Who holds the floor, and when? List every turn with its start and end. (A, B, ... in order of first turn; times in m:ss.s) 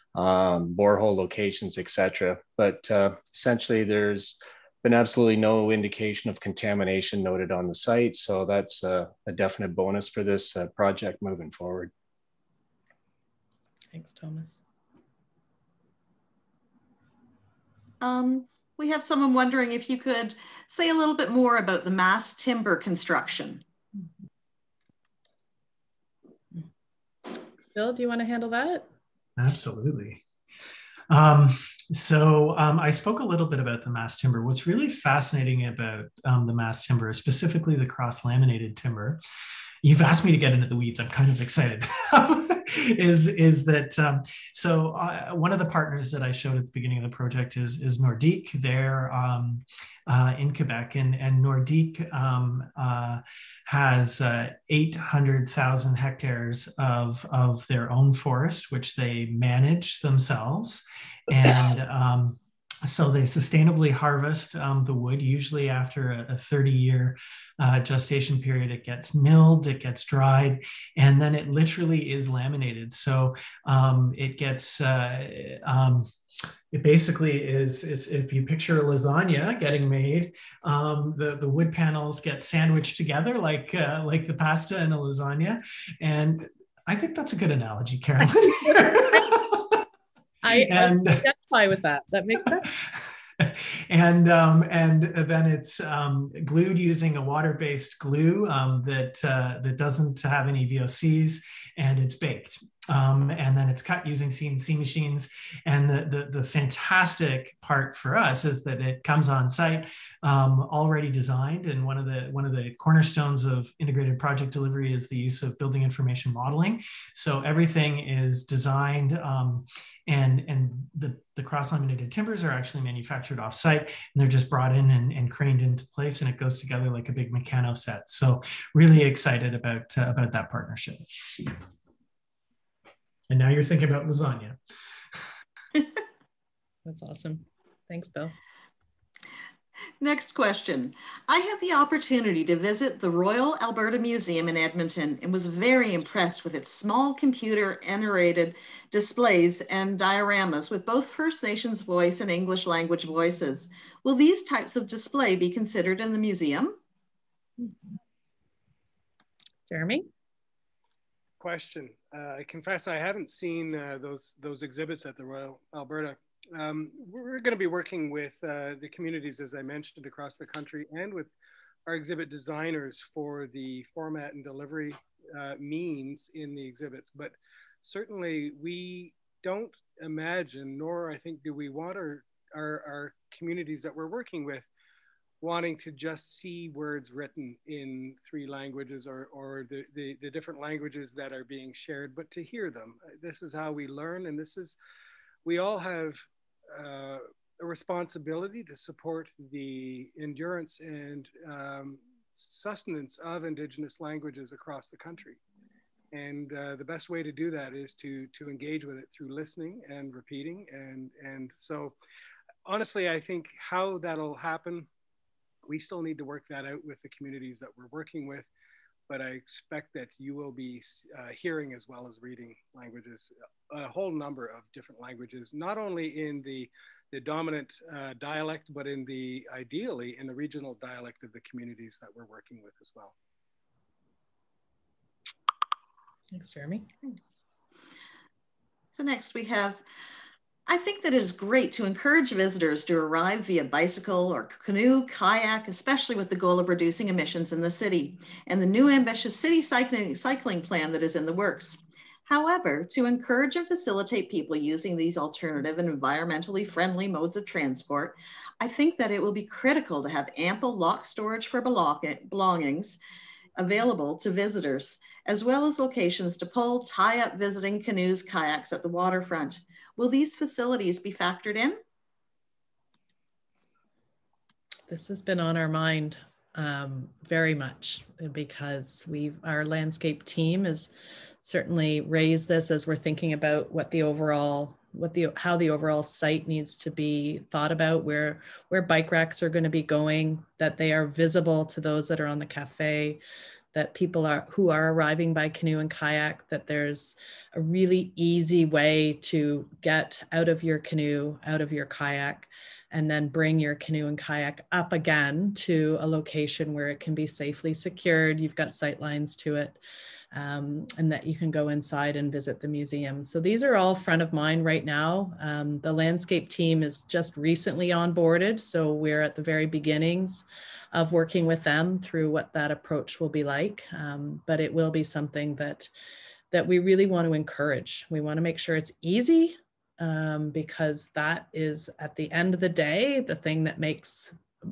0:00.2-0:11.9 A
0:13.9-0:14.6 B
0:18.0-0:23.6 C
0:27.7-0:28.9 B
0:29.4-0:30.2 D
0:31.1-0:39.2 D
0:39.8-1:16.1 D
1:16.7-1:29.8 D
1:28.7-1:29.3 B
1:30.4-1:32.7 B
1:30.5-1:31.3 D
1:32.6-2:11.5 D
2:13.3-2:14.6 D
2:16.9-2:18.3 B
2:20.0-2:36.8 C
2:39.7-2:40.1 B
2:41.4-2:51.3 E
2:51.9-3:04.7 E
3:05.4-3:14.8 E
3:15.4-3:25.4 E
3:26.1-3:32.0 E
3:32.7-3:34.9 E
3:35.7-3:38.5 E
3:39.1-3:53.1 E
3:56.3-3:56.9 B
3:59.0-3:59.8 C
4:00.7-4:23.0 C
4:23.6-4:31.8 C
4:34.9-4:40.9 B
4:41.4-4:53.2 B
4:53.7-5:09.8 B
5:10.3-5:25.9 B
5:26.5-5:34.4 B